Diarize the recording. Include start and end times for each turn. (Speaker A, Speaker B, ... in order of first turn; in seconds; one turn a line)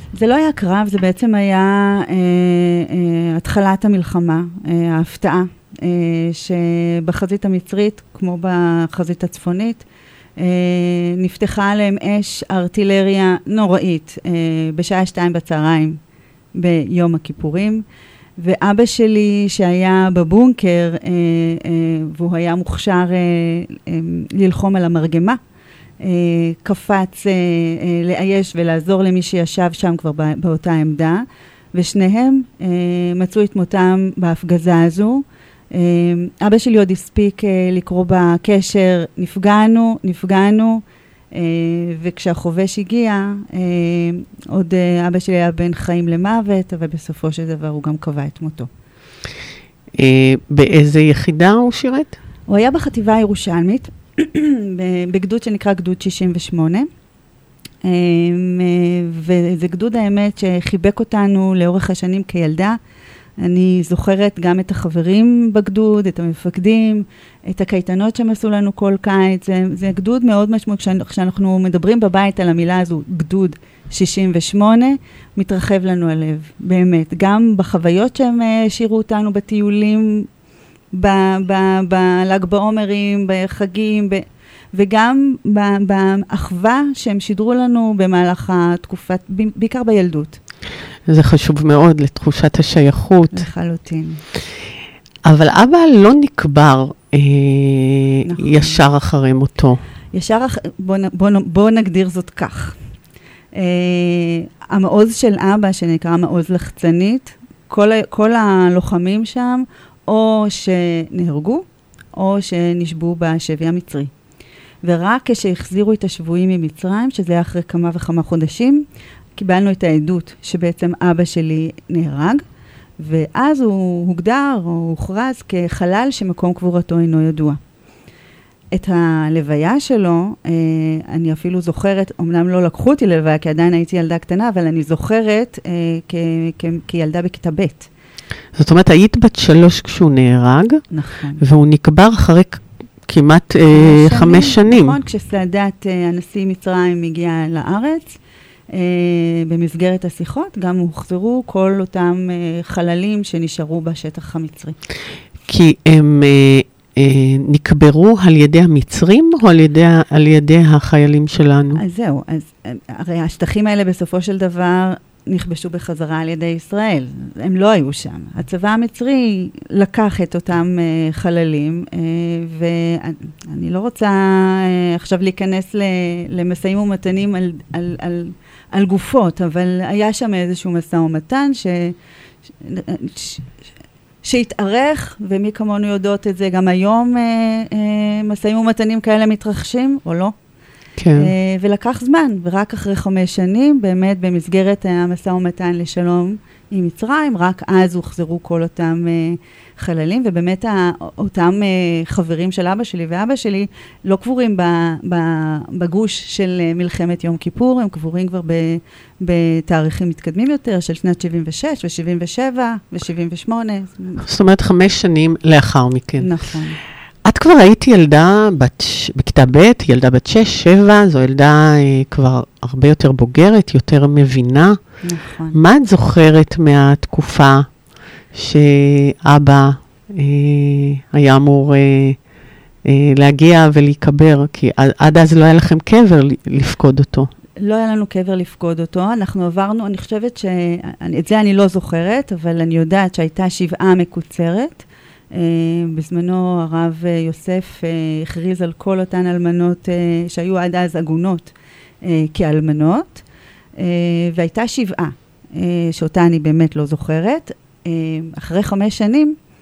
Speaker A: 0.1-9.8
Speaker A: 10.4-16.0
Speaker A: 16.6-17.8
Speaker A: 18.4-25.4
Speaker A: 26.0-48.7
Speaker B: 50.0-52.1
Speaker A: 52.5-56.9
Speaker A: 57.8-62.8
Speaker A: 63.4-80.3
Speaker A: 80.9-90.4
Speaker B: 91.1-93.5
Speaker A: 93.3-94.2
Speaker B: 95.3-99.8
Speaker A: 98.3-98.8
Speaker A: 100.1-102.8
Speaker A: 103.5-114.1
Speaker A: 114.8-118.8
Speaker A: 119.4-122.4
Speaker A: 123.0-127.6
Speaker A: 128.7-137.9
Speaker B: 138.6-140.8
Speaker A: 140.9-141.4
Speaker B: 141.4-145.0
Speaker A: 143.7-148.2
Speaker A: 148.7-154.8
Speaker B: 155.5-161.8
Speaker A: 161.8-181.9
Speaker A: 182.6-183.5
Speaker A: 184.2-190.3
Speaker B: 191.0-191.3
Speaker A: 191.2-214.2
Speaker B: 214.2-216.3
Speaker A: 216.2-216.8
Speaker B: 217.2-224.8
Speaker A: 225.0-225.6
Speaker B: 225.5-227.7
Speaker B: 228.3-232.2
Speaker B: 232.9-237.3
Speaker A: 237.6-253.2
Speaker A: 253.8-259.4